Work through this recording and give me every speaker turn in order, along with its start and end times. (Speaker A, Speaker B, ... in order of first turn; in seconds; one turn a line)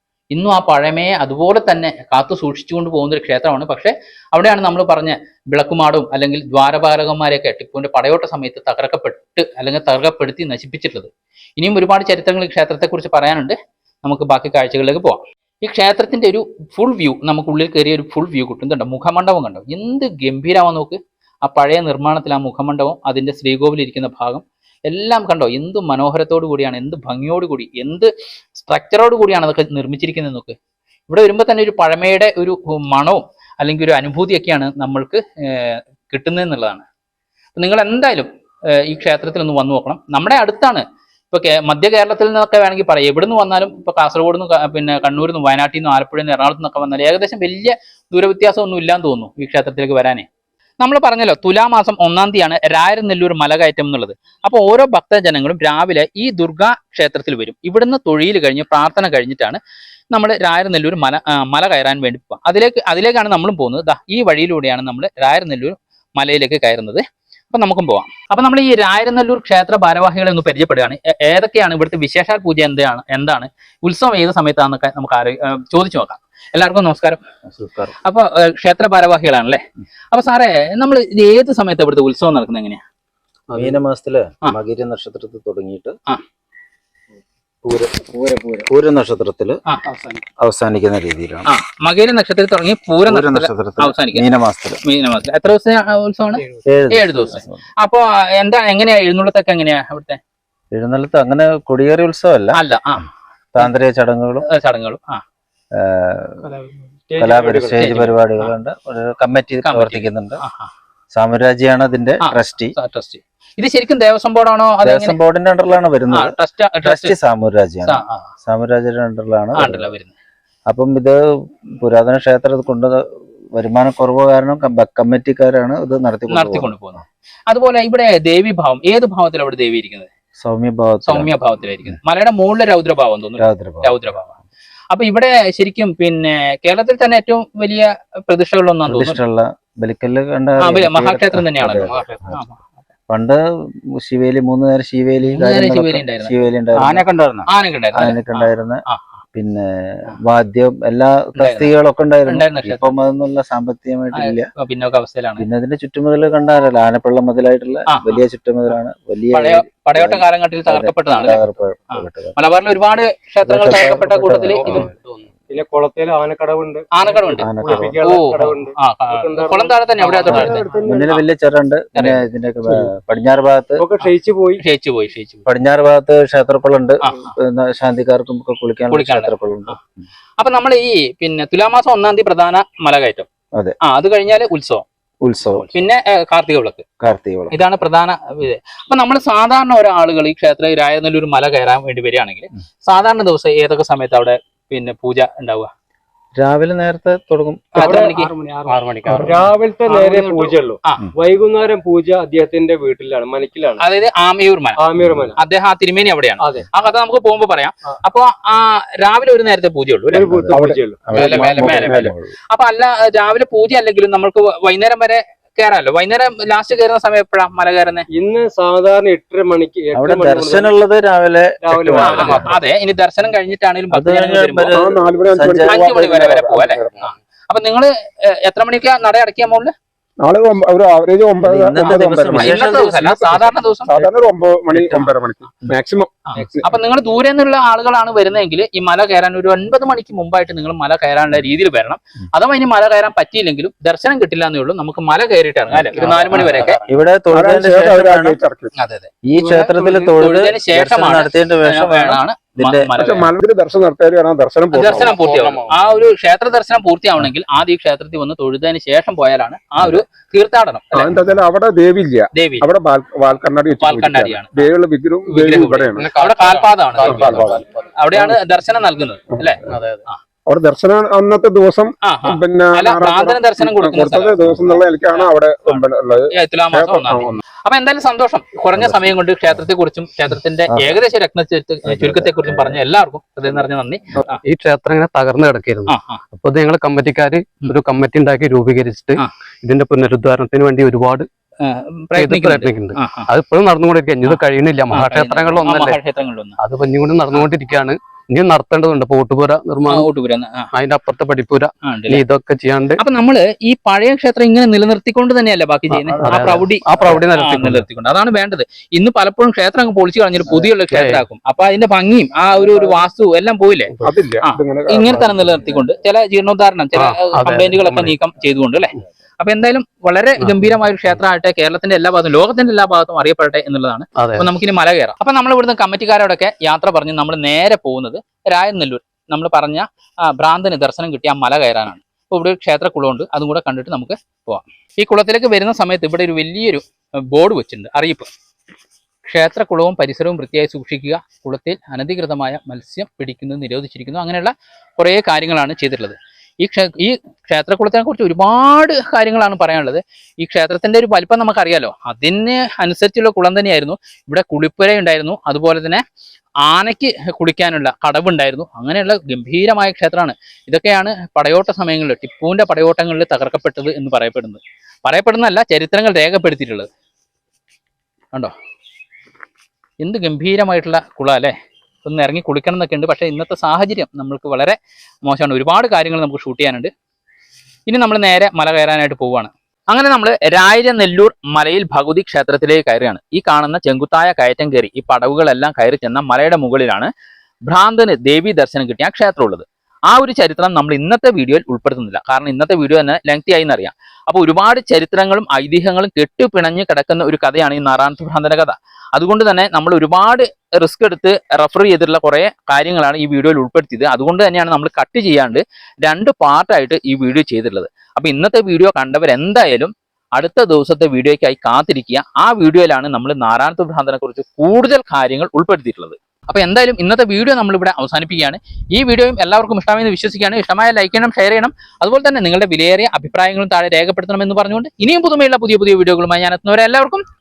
Speaker A: 0.3-30.6
Speaker A: 31.1-36.9
Speaker A: 37.5-50.3
Speaker A: 50.8-59.6
Speaker A: 60.1-77.2
Speaker B: 77.5-77.9
Speaker A: 78.0-82.8
Speaker C: 83.5-83.8
Speaker B: 83.5-86.0
Speaker B: 87.6-89.6
Speaker C: 89.9-90.2
Speaker B: 90.4-91.5
Speaker A: 91.5-94.2
Speaker B: 93.0-94.8
Speaker A: 94.8-100.2
Speaker B: 96.7-97.6
Speaker B: 100.7-102.6
Speaker A: 102.5-103.7
Speaker B: 103.5-104.4
Speaker A: 104.4-105.2
Speaker B: 105.7-106.5
Speaker D: 106.5-107.9
Speaker B: 107.2-110.4
Speaker A: 107.8-108.5
Speaker A: 109.6-110.7
Speaker B: 111.1-112.8
Speaker A: 112.2-115.2
Speaker B: 114.8-119.9
Speaker A: 116.1-117.1
Speaker A: 117.8-118.3
Speaker A: 119.5-120.1
Speaker B: 120.7-123.0
Speaker B: 123.5-126.7
Speaker A: 126.3-130.1
Speaker B: 130.4-131.3
Speaker A: 131.0-134.3
Speaker B: 133.4-134.1
Speaker A: 134.9-139.2
Speaker B: 138.9-142.4
Speaker A: 140.6-142.6
Speaker C: 141.8-142.2
Speaker B: 143.1-143.4
Speaker B: 143.9-148.8
Speaker A: 145.3-149.0
Speaker B: 149.3-154.5
Speaker A: 151.3-151.7
Speaker A: 152.2-152.9
Speaker A: 154.1-155.4
Speaker B: 155.4-162.3
Speaker A: 157.9-158.2
Speaker A: 159.3-164.9
Speaker B: 163.4-164.9
Speaker C: 164.3-165.2
Speaker D: 165.5-171.1
Speaker A: 166.9-171.2
Speaker B: 167.4-168.0
Speaker E: 170.1-170.4
Speaker B: 170.3-173.8
Speaker A: 171.9-172.2
Speaker E: 172.6-172.9
Speaker D: 173.8-174.6
Speaker A: 174.6-175.4
Speaker B: 175.4-179.9
Speaker A: 177.1-177.3
Speaker A: 178.9-179.8
Speaker A: 180.4-183.3
Speaker A: 183.8-184.8
Speaker B: 185.2-185.8
Speaker A: 185.5-186.8
Speaker B: 187.0-187.6
Speaker A: 187.5-195.7
Speaker B: 196.3-198.0
Speaker A: 197.7-198.3
Speaker D: 197.8-203.8
Speaker C: 198.7-199.4
Speaker A: 199.9-201.0
Speaker A: 203.8-204.8
Speaker D: 204.8-205.4
Speaker B: 205.0-205.3
Speaker A: 205.3-210.2
Speaker D: 206.4-206.7
Speaker D: 210.1-211.2
Speaker B: 210.1-212.3
Speaker E: 210.5-212.1
Speaker A: 211.1-218.1
Speaker D: 218.1-220.7
Speaker B: 219.9-222.6
Speaker D: 221.6-222.4
Speaker A: 222.0-224.8
Speaker B: 223.9-226.3
Speaker E: 224.7-227.1
Speaker A: 225.6-229.7
Speaker E: 230.2-236.7
Speaker B: 231.4-232.9
Speaker A: 232.3-233.9
Speaker B: 234.7-235.1
Speaker A: 236.3-246.8
Speaker C: 245.9-246.8
Speaker B: 246.3-248.4
Speaker E: 247.3-248.7
Speaker A: 248.8-249.1
Speaker B: 249.2-252.9
Speaker E: 249.5-249.9
Speaker A: 250.2-253.3
Speaker E: 253.0-255.2
Speaker A: 254.7-261.1
Speaker C: 254.8-255.8
Speaker E: 260.9-266.1
Speaker A: 262.3-262.7
Speaker A: 263.8-264.7
Speaker A: 265.3-270.2
Speaker C: 265.9-267.7
Speaker E: 267.0-267.6
Speaker C: 269.6-270.0
Speaker E: 270.5-277.4
Speaker A: 272.0-284.4
Speaker B: 278.8-279.1
Speaker B: 280.7-281.0
Speaker B: 281.9-282.8
Speaker C: 284.3-291.3
Speaker A: 285.9-286.2
Speaker A: 291.6-293.3
Speaker C: 292.1-296.0
Speaker A: 294.2-296.6
Speaker C: 296.6-300.1
Speaker A: 299.9-300.7
Speaker C: 300.7-303.0
Speaker A: 301.8-302.2
Speaker A: 303.0-338.3
Speaker C: 305.9-307.9
Speaker C: 310.9-311.2
Speaker E: 314.0-315.8
Speaker C: 316.9-318.1
Speaker C: 324.2-324.5
Speaker A: 339.2-356.0
Speaker A: 356.6-366.9
Speaker A: 370.0-376.9
Speaker A: 377.9-387.1
Speaker A: 387.7-427.2